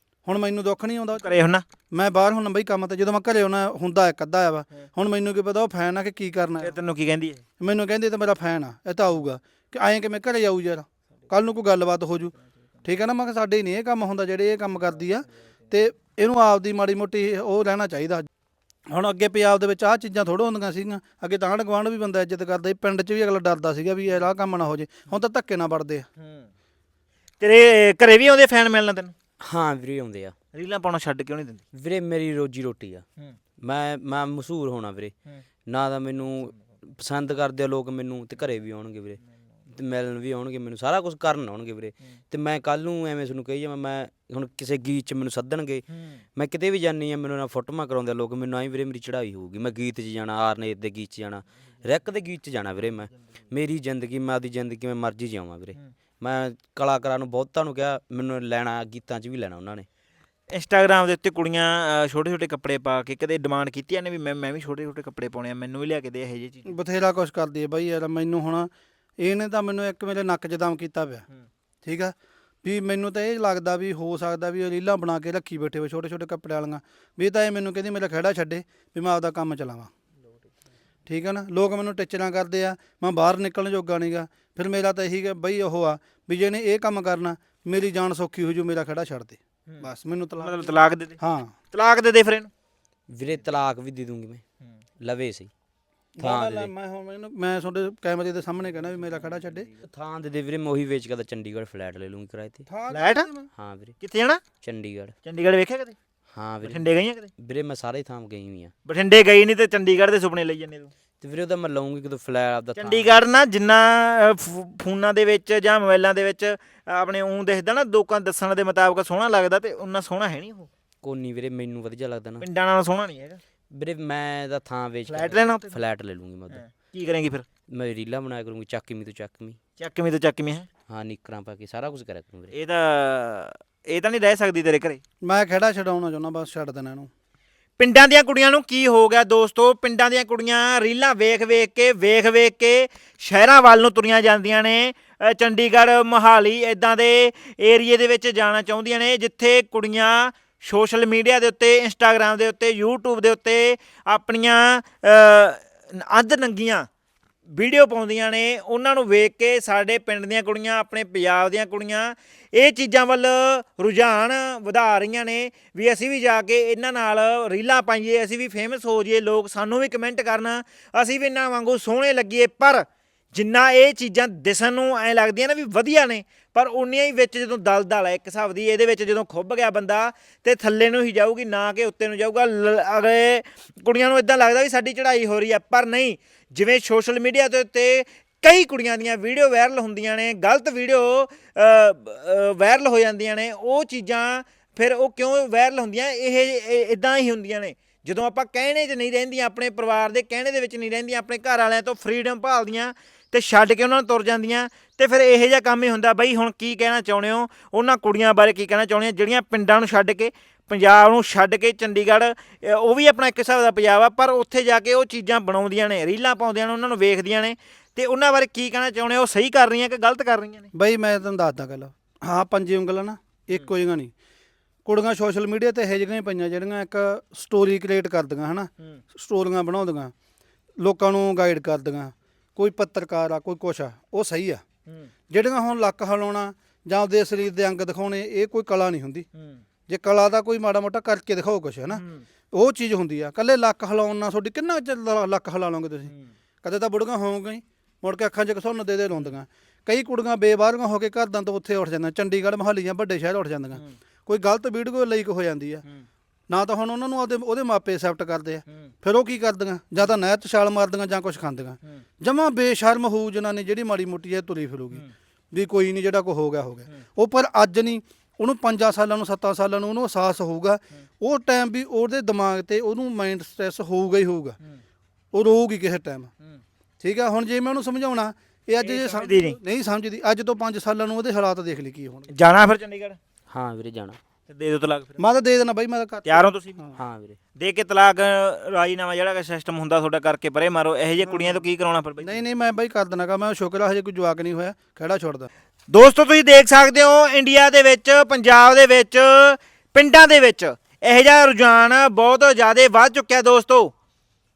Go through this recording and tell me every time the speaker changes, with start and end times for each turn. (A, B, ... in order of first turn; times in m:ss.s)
0:00.3-0:01.3 A
0:01.2-0:01.6 B
0:01.9-0:06.8 A
0:06.6-0:07.4 B
0:07.6-0:18.3 A
0:18.9-0:26.1 A
0:26.2-0:26.5 B
0:27.4-0:29.1 B
0:29.4-0:30.3 C
0:30.5-0:31.6 B
0:31.8-0:33.0 C
0:33.6-0:35.1 C
0:35.7-0:39.2 C
0:39.7-0:45.8 C
0:45.9-0:46.2 B
0:46.4-0:59.9 C
1:00.5-1:06.7 B
1:06.7-1:11.3 A
1:11.8-1:19.9 A
1:21.1-1:30.6 A
1:29.7-1:31.2 B
1:31.2-1:31.5 A
1:31.7-1:32.5 B
1:33.1-1:34.4 C
1:35.0-1:35.5 C
1:36.2-1:39.7 A
1:36.2-1:36.7 C
1:39.9-1:42.6 C
1:42.7-1:43.5 A
1:42.9-1:43.3 B
1:43.6-1:43.9 C
1:44.0-1:44.4 B
1:44.6-1:45.1 C
1:45.2-1:46.0 B
1:46.4-1:46.9 C
1:46.6-1:47.3 B
1:47.4-1:48.7 C
1:48.9-1:50.9 B
1:51.2-1:53.1 C
1:52.8-2:00.7 B
2:01.0-2:02.4 C
2:02.4-2:03.4 B
2:03.7-2:06.6 C
2:05.1-2:05.8 B
2:06.5-2:07.4 B
2:07.7-2:09.6 C
2:09.8-2:10.7 B
2:10.9-2:12.5 C
2:12.5-2:15.0 B
2:15.2-2:17.1 A
2:17.8-2:36.9 B
2:37.5-3:40.7 B
3:40.7-3:44.1 A
3:44.8-3:50.1 A
3:50.8-3:54.6 A
3:55.3-3:59.3 A
3:59.4-3:59.6 B
3:59.9-4:06.1 A
4:01.9-4:02.3 B
4:06.6-4:15.8 A
4:16.5-4:34.6 A
4:35.3-4:36.3 A
4:37.0-4:42.3 A
4:38.8-4:39.6 B
4:42.3-4:43.2 B
4:43.5-4:44.2 C
4:44.5-4:45.2 B
4:45.2-4:47.0 A
4:46.3-4:46.8 B
4:47.0-4:47.4 C
4:47.6-4:52.4 B
4:51.2-4:51.6 A
4:52.2-4:55.5 A
4:55.9-5:03.9 B